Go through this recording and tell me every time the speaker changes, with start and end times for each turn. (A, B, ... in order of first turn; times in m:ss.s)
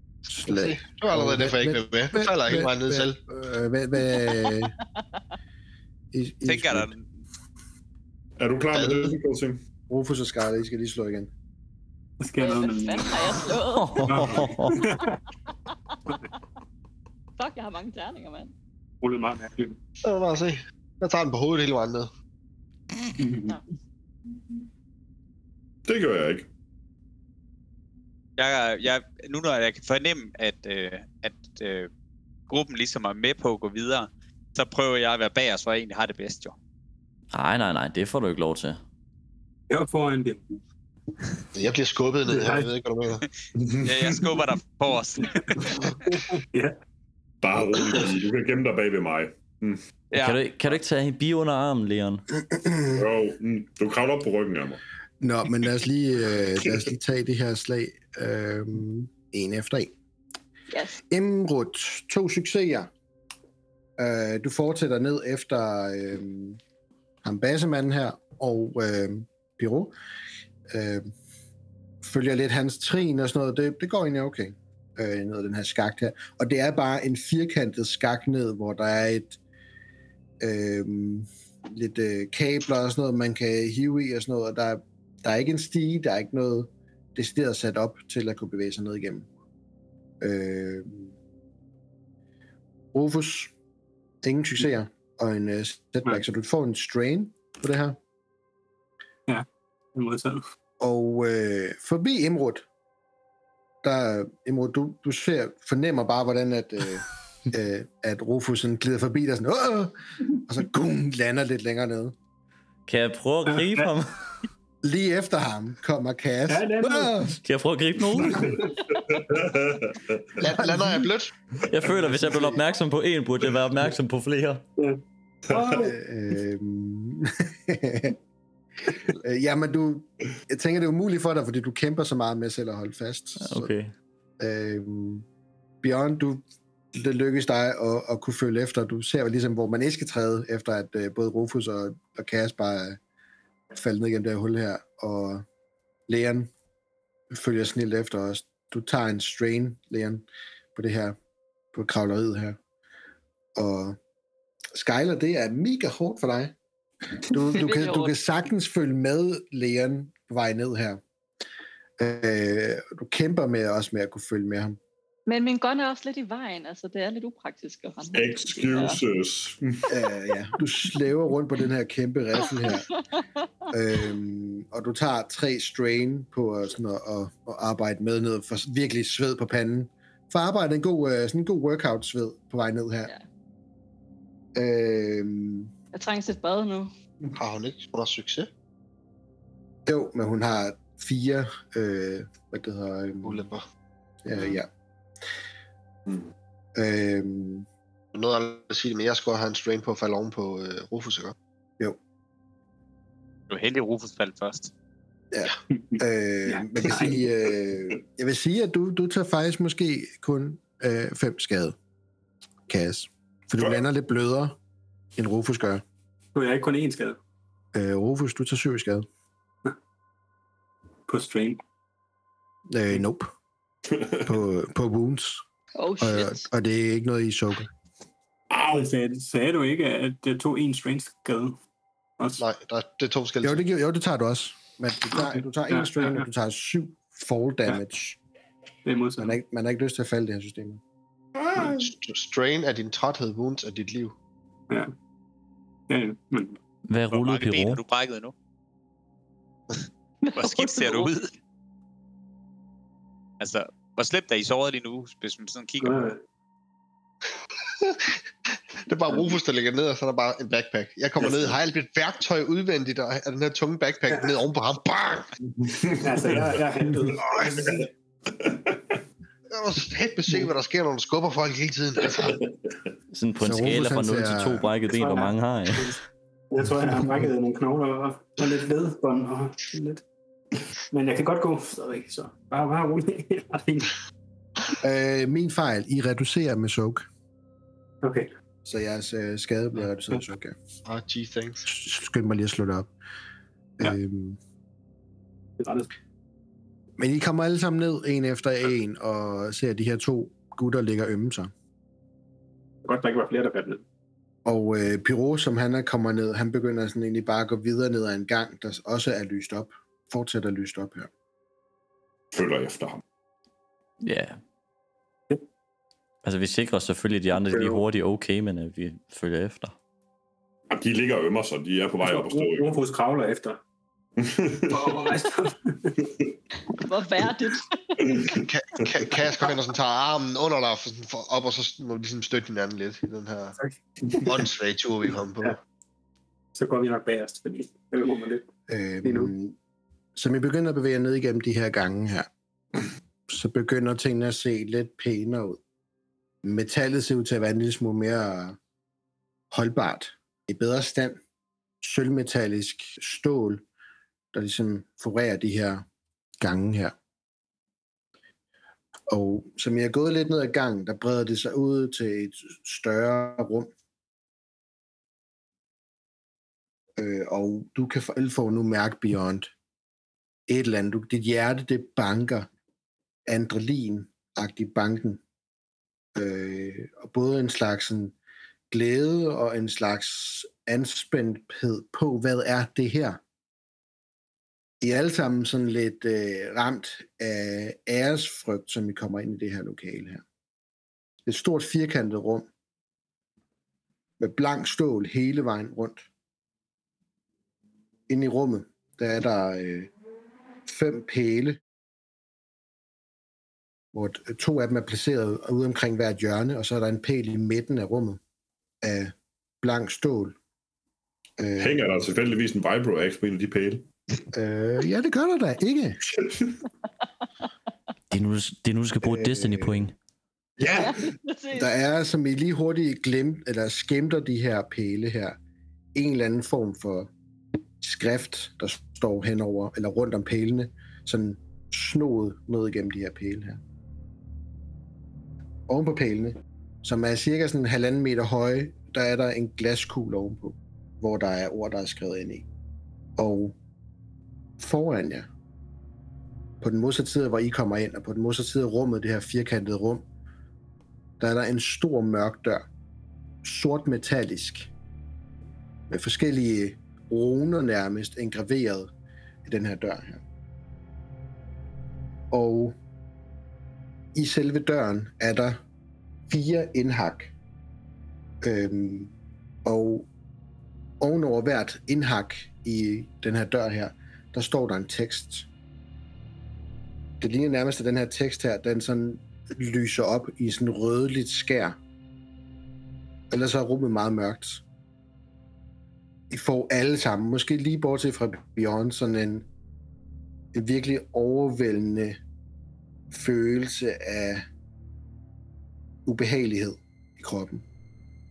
0:00.3-0:04.7 A
0:00.5-0:03.2 B
0:06.1-0:06.9 A
0:06.4-0:07.0 C
0:08.4-0:09.6 D
0:08.8-0:09.1 B
0:09.9-0:11.3 A
0:12.2-0:15.2 E
0:12.4-0:14.5 F
0:13.7-0:14.8 G
0:17.4-0:18.5 F
0:19.0-0:19.8 E
0:20.0-0:22.1 B
0:23.2-0:23.6 E
0:25.8-0:26.5 D
0:28.4-0:31.9 C
0:32.5-0:36.5 C
0:37.3-0:38.8 G
0:39.7-0:40.6 E
0:41.5-0:43.2 B
0:42.3-0:42.7 E
0:43.5-0:44.2 D
0:43.8-0:45.7 C
0:45.3-0:46.8 E
0:47.4-0:49.8 D
0:50.1-0:50.4 C
0:50.2-0:52.2 G
0:52.5-0:53.0 A
0:52.9-0:54.8 D
0:55.2-0:59.9 A
1:00.7-1:01.0 F
1:01.1-1:02.9 A
1:04.0-1:06.6 A
1:07.2-1:09.9 A
1:10.7-1:11.1 A
1:12.0-1:19.4 A
1:20.4-1:29.3 A
1:30.2-1:31.1 A
1:32.9-1:33.5 A
1:34.2-1:38.0 A
1:39.3-1:40.4 E
1:40.8-1:42.6 A
1:43.8-1:52.1 A
1:52.9-1:54.1 G
1:53.5-1:53.9 E
1:54.8-1:57.4 A
1:56.5-1:57.2 E
1:57.4-1:58.5 G
1:58.2-1:58.8 E
1:59.1-2:00.4 D
2:00.4-2:01.3 B
2:00.5-2:01.1 A
2:01.6-2:04.6 G
2:02.2-2:02.6 A
2:04.8-2:06.0 E
2:05.8-2:08.2 A
2:09.1-2:13.7 A
2:13.4-2:13.9 G
2:14.4-2:15.2 A
2:15.8-2:16.4 A
2:16.9-2:23.0 A
2:23.7-2:25.4 A
2:26.1-2:26.5 A
2:27.3-2:31.2 A
2:31.7-2:32.6 A
2:33.6-2:34.0 A
2:34.7-2:36.6 A
2:37.3-2:41.0 A
2:37.4-2:38.1 F
2:42.0-2:44.8 A
2:45.3-2:49.0 F
2:48.1-2:49.9 D
2:49.9-2:52.9 A
2:52.4-2:53.4 F
2:53.7-3:03.1 A
3:04.5-3:05.7 A
3:05.9-3:06.9 F
3:07.4-3:08.5 B
3:09.8-3:13.5 A
3:13.2-3:13.6 B
3:14.2-3:14.7 A
3:16.8-3:17.7 A
3:18.1-3:21.4 B
3:23.5-3:24.7 C
3:25.3-3:31.8 A
3:25.7-3:27.3 E
3:32.7-3:34.6 A
3:35.2-3:35.8 A
3:36.3-3:37.2 E
3:37.7-3:39.0 A
3:41.1-3:41.6 E
3:42.7-3:43.3 A
3:43.9-3:44.2 D
3:44.2-3:45.4 A
3:45.8-3:46.5 F
3:46.0-3:47.7 A
3:48.5-3:48.9 D
3:48.7-3:51.6 E
3:52.2-3:52.4 E
3:52.4-3:53.6 B
3:53.4-3:58.2 A
3:55.1-3:56.2 E
3:58.8-3:59.4 E
3:59.2-4:00.8 A
4:01.4-4:01.9 D
4:01.6-4:04.1 B
4:05.9-4:06.6 E
4:06.9-4:07.8 G
4:07.1-4:08.3 C
4:10.2-4:11.1 F
4:10.4-4:11.3 C
4:13.4-4:16.1 C
4:15.8-4:16.2 E
4:17.7-4:18.2 B
4:18.8-4:25.3 B
4:24.1-4:24.4 E
4:25.4-4:27.1 D
4:26.0-4:27.9 E
4:27.2-4:27.7 B
4:28.4-4:29.0 D
4:29.5-4:32.4 B
4:33.1-4:36.0 G
4:33.4-4:34.7 A
4:34.9-4:36.0 E
4:36.5-4:40.0 E
4:40.9-4:43.9 E
4:44.8-4:47.1 A
4:48.0-4:48.3 E
4:48.6-4:50.5 A
4:50.8-4:51.7 B
4:51.6-4:52.9 A
4:53.8-4:54.4 A
4:55.6-4:55.9 E
4:57.0-5:01.5 A
5:02.8-5:03.8 E
5:04.4-5:11.1 A
5:12.3-5:13.0 D
5:14.0-5:14.4 G
5:16.2-5:19.8 G
5:17.4-5:17.8 E
5:20.7-5:22.7 D
5:22.0-5:23.6 E
5:24.2-5:25.0 D
5:24.7-5:25.9 E
5:26.0-5:26.3 D
5:26.7-5:28.4 F
5:28.0-5:28.4 D
5:28.4-5:33.5 B
5:33.6-5:34.5 E
5:34.2-5:35.6 B
5:36.5-5:38.5 E
5:38.7-5:39.6 A
5:39.0-5:39.3 E
5:40.1-5:42.3 A
5:43.3-5:45.6 A
5:46.4-5:48.6 A
5:49.5-5:51.2 A
5:51.8-5:53.6 A
5:54.3-5:55.8 A
5:56.4-5:56.9 A
5:59.1-6:03.7 A
6:07.0-6:09.5 A
6:10.5-6:12.5 A
6:13.2-6:15.2 A
6:16.2-6:18.1 A
6:18.7-6:23.2 A
6:24.8-6:30.2 A
6:31.2-6:32.5 A
6:34.2-6:36.1 A
6:38.1-6:39.9 A
6:40.6-6:41.6 A
6:43.9-6:48.2 A
6:48.8-6:50.3 A
6:51.4-6:51.8 A
6:51.6-6:53.9 D
6:54.3-6:56.0 A
6:56.1-6:56.6 D
6:58.1-6:59.9 G
6:59.0-6:59.9 A
7:00.6-7:01.0 A
7:00.7-7:01.7 F
7:01.5-7:05.4 A
7:05.9-7:07.1 A
7:07.8-7:13.6 A
7:15.7-7:22.4 A
7:23.2-7:23.6 A
7:24.6-7:25.3 A
7:26.6-7:30.0 A
7:31.2-7:32.7 A
7:33.4-7:34.7 A
7:35.9-7:38.9 A
7:39.4-7:40.2 A
7:42.3-7:42.8 A
7:44.1-7:45.6 A
7:46.3-7:47.3 A
7:48.4-7:49.1 A
7:49.6-7:50.1 A
7:51.0-7:55.5 A
7:57.2-8:01.8 A
8:03.3-8:04.6 A
8:06.3-8:09.5 A
8:10.5-8:12.2 A
8:13.1-8:14.4 A
8:16.0-8:17.6 A